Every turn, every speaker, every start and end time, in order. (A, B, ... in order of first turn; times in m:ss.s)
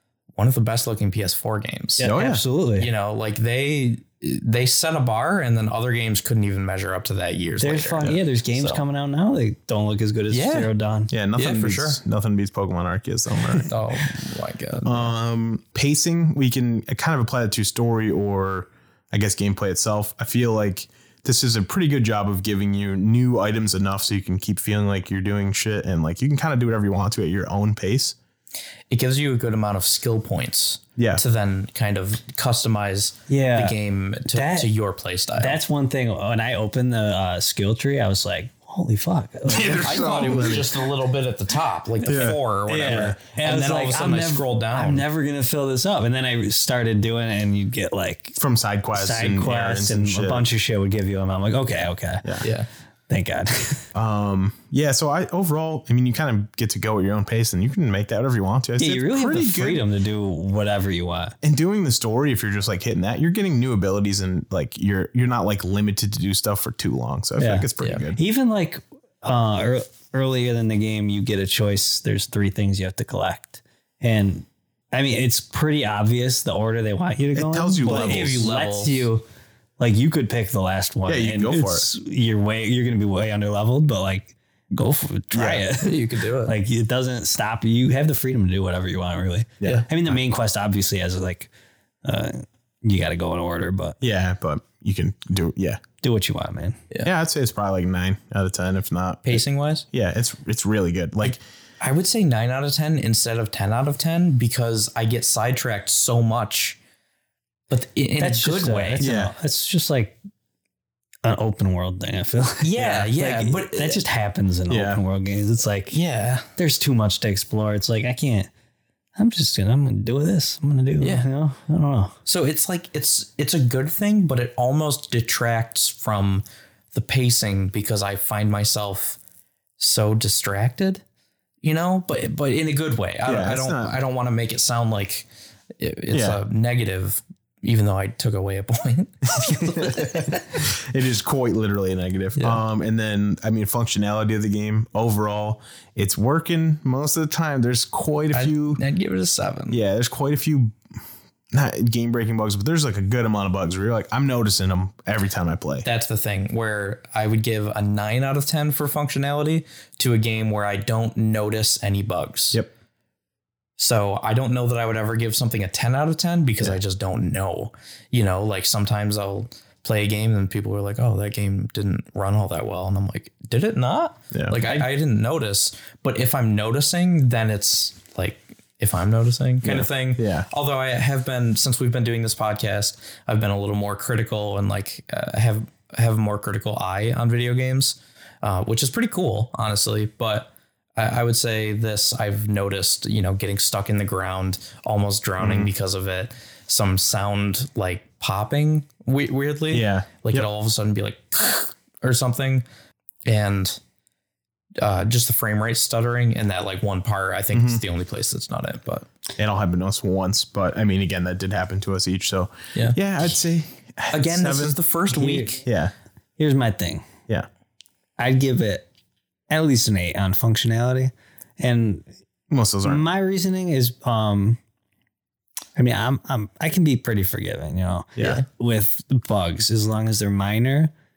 0:00.4-0:08.8 A
0:02.0-0:02.9 B
0:02.0-0:02.4 C
0:07.6-0:11.1 B
0:10.3-0:10.7 A
0:11.1-0:13.7 C
0:11.4-0:12.0 A
0:13.6-0:15.1 A
0:14.8-0:28.2 C
0:28.9-0:35.6 A
0:31.0-0:31.2 C
0:33.3-0:33.8 B
0:34.3-0:34.7 B
0:35.4-0:40.7 B
0:39.5-0:40.8 C
0:39.8-0:45.0 A
0:42.0-0:48.4 B
0:42.0-0:42.4 C
0:48.4-0:50.4 C
0:48.9-0:52.2 B
0:52.4-0:52.7 A
0:53.1-0:53.8 B
0:53.9-0:59.8 C
0:58.8-1:01.4 B
1:01.4-1:08.2 C
1:07.4-1:19.2 B
1:17.3-1:18.5 C
1:17.8-1:19.1 A
1:19.8-1:31.5 B
1:21.0-1:21.9 C
1:25.3-1:25.6 C
1:25.7-1:26.6 A
1:29.6-1:30.2 C
1:32.0-1:34.0 B
1:34.0-1:35.8 C
1:36.0-1:36.8 B
1:37.0-1:41.4 C
1:39.2-1:39.8 A
1:41.8-1:46.8 A
1:47.7-1:49.0 A
1:48.2-1:50.2 B
1:49.0-1:49.3 C
1:51.2-1:56.0 B
1:52.6-1:54.0 A
1:54.7-1:55.0 C
1:55.9-1:56.5 A
1:56.6-1:58.5 B
1:59.2-2:02.1 B
2:01.0-2:01.2 A
2:02.2-2:09.2 A
2:09.8-2:11.0 A
2:11.6-2:15.3 A
2:13.2-2:14.0 C
2:15.8-2:20.6 A
2:16.1-2:16.4 C
2:19.3-2:28.8 C
2:22.4-2:22.6 A
2:28.3-2:29.8 A
2:29.7-2:30.7 C
2:31.5-2:35.9 C
2:35.8-2:42.6 A
2:43.8-3:22.6 A
2:54.3-2:54.6 C
2:59.6-3:00.5 C
3:15.4-3:15.7 C
3:19.7-3:20.5 C
3:23.2-3:23.8 A
3:24.8-3:29.1 A
3:27.5-3:27.8 C
3:29.4-3:34.8 C
3:34.1-3:35.6 A
3:35.1-3:35.6 B
3:35.6-3:35.9 C
3:36.4-3:37.1 B
3:38.2-3:38.9 B
3:39.5-3:42.1 B
3:42.5-3:43.0 C
3:42.8-3:44.6 B
3:45.7-3:50.9 B
3:48.2-3:48.4 C
3:48.2-3:48.4 A